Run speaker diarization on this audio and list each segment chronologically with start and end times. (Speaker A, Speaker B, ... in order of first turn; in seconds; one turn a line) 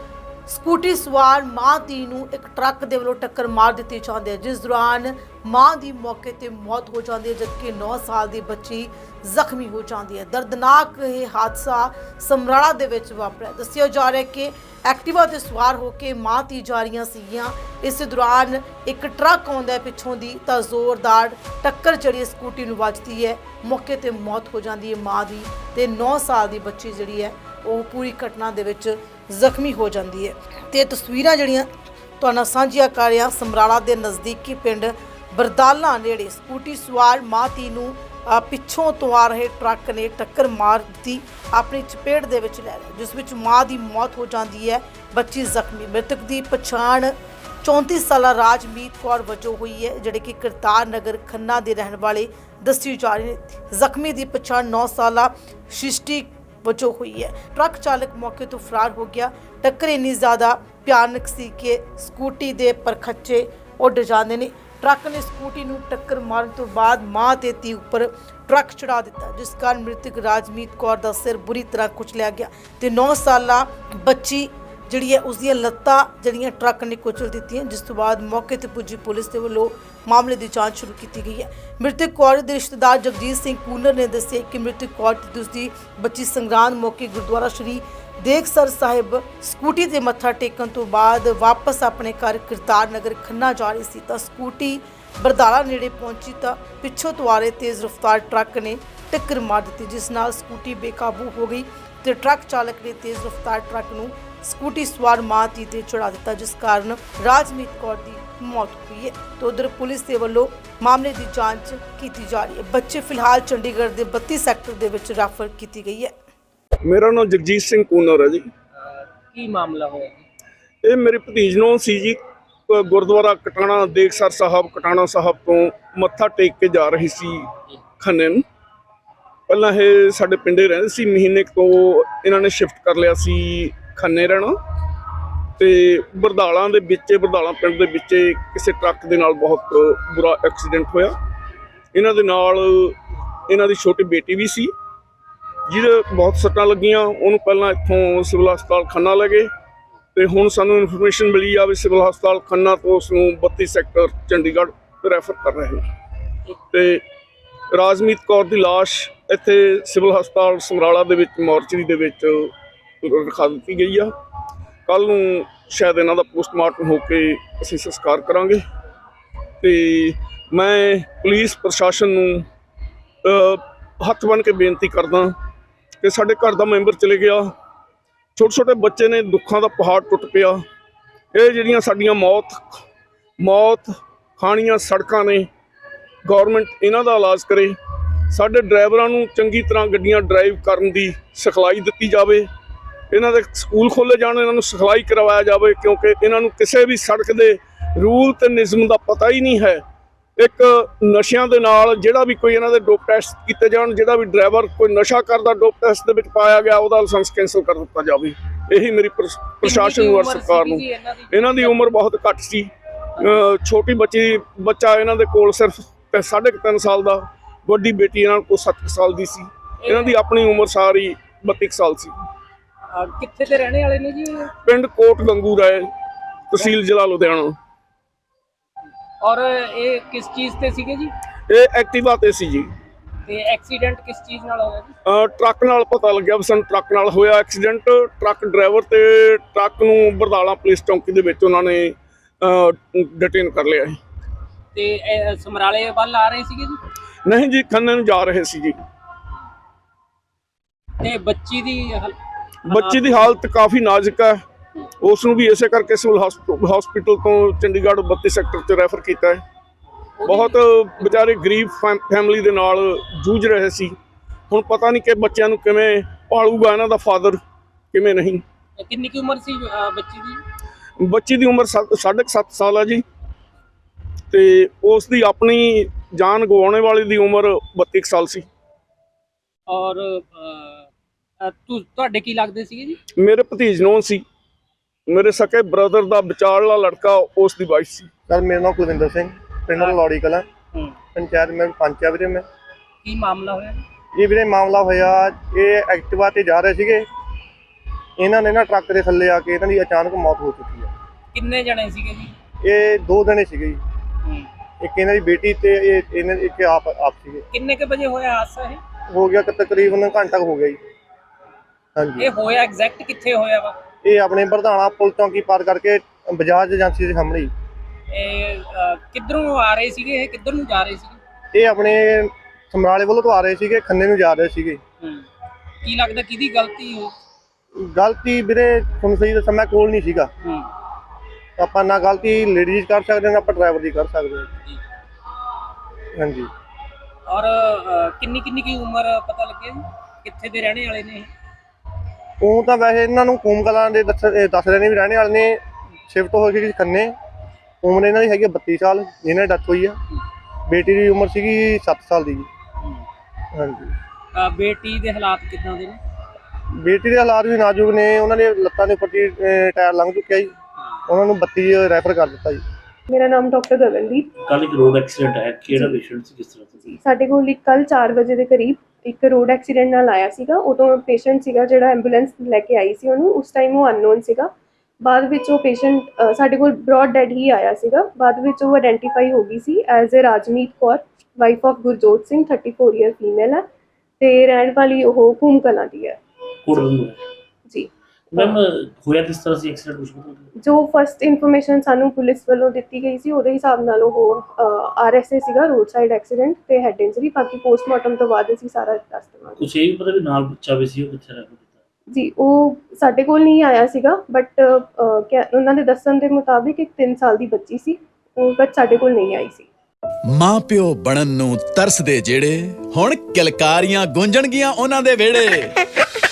Speaker A: 0.5-31.7
Speaker A: 32.2-116.1
Speaker B: 116.8-118.5
Speaker C: 118.7-120.2
Speaker B: 120.8-128.4
Speaker B: 129.5-134.5
Speaker B: 135.6-141.1
Speaker B: 141.9-142.9
Speaker B: 143.5-144.7
Speaker B: 145.7-149.5
Speaker B: 150.1-155.8
Speaker B: 156.7-157.0
Speaker B: 157.7-162.5
Speaker B: 163.0-164.1
Speaker B: 164.9-168.6
Speaker B: 169.6-172.4
Speaker B: 173.2-175.3
Speaker B: 176.0-177.5
Speaker B: 178.3-180.6
Speaker B: 181.3-182.8
Speaker B: 183.4-185.5
Speaker B: 186.2-187.8
Speaker B: 188.3-192.5
Speaker B: 193.1-199.8
Speaker B: 200.4-222.1
Speaker C: 209.6-211.9
Speaker C: 213.2-213.4
Speaker C: 219.8-220.2
Speaker C: 222.9-224.5
Speaker B: 224.6-225.9
Speaker B: 226.5-227.6
Speaker C: 229.2-231.1
Speaker B: 231.5-232.7
Speaker C: 233.2-234.9
Speaker B: 235.1-244.0
Speaker C: 244.7-246.8
Speaker B: 247.2-248.8
Speaker C: 251.0-252.2
Speaker B: 252.7-254.4
Speaker C: 252.7-253.3
Speaker B: 255.0-259.4
Speaker C: 260.2-261.2
Speaker B: 260.3-263.9
Speaker B: 264.5-267.4
Speaker B: 267.9-268.4
Speaker C: 268.8-270.4
Speaker B: 271.0-273.0
Speaker B: 274.3-278.5
Speaker C: 279.7-280.9
Speaker C: 281.4-283.0
Speaker B: 283.2-284.2
Speaker B: 285.1-288.1
Speaker D: 288.3-290.4
Speaker C: 289.7-290.0
Speaker D: 291.1-292.4
Speaker C: 293.0-293.8
Speaker D: 294.1-297.1
Speaker D: 298.2-300.9
Speaker C: 301.3-302.3
Speaker D: 302.6-303.8
Speaker C: 304.2-304.5
Speaker D: 304.8-307.4
Speaker C: 307.5-308.8
Speaker D: 309.1-310.8
Speaker D: 311.9-312.3
Speaker C: 312.2-313.8
Speaker D: 314.0-317.5
Speaker C: 318.1-321.2
Speaker D: 321.5-324.8
Speaker C: 325.0-325.2
Speaker C: 325.8-327.1
Speaker D: 327.8-330.3
Speaker C: 330.4-330.7
Speaker D: 331.6-334.5
Speaker D: 336.1-336.5
Speaker C: 337.3-341.3
Speaker D: 342.4-347.1
Speaker D: 347.8-350.0
Speaker D: 350.7-352.5
Speaker D: 353.5-353.9
Speaker C: 354.3-356.0
Speaker D: 356.8-360.5
Speaker D: 361.1-362.6
Speaker E: 363.1-364.3
Speaker F: 364.4-366.7
Speaker E: 365.7-366.0
Speaker E: 366.8-374.5
Speaker E: 375.0-383.6
Speaker E: 384.2-386.2
Speaker F: 386.6-387.2
Speaker E: 387.7-388.6
Speaker F: 388.4-390.4
Speaker E: 390.6-399.6
Speaker F: 399.6-401.6
Speaker E: 402.1-409.7
Speaker G: 410.3-415.8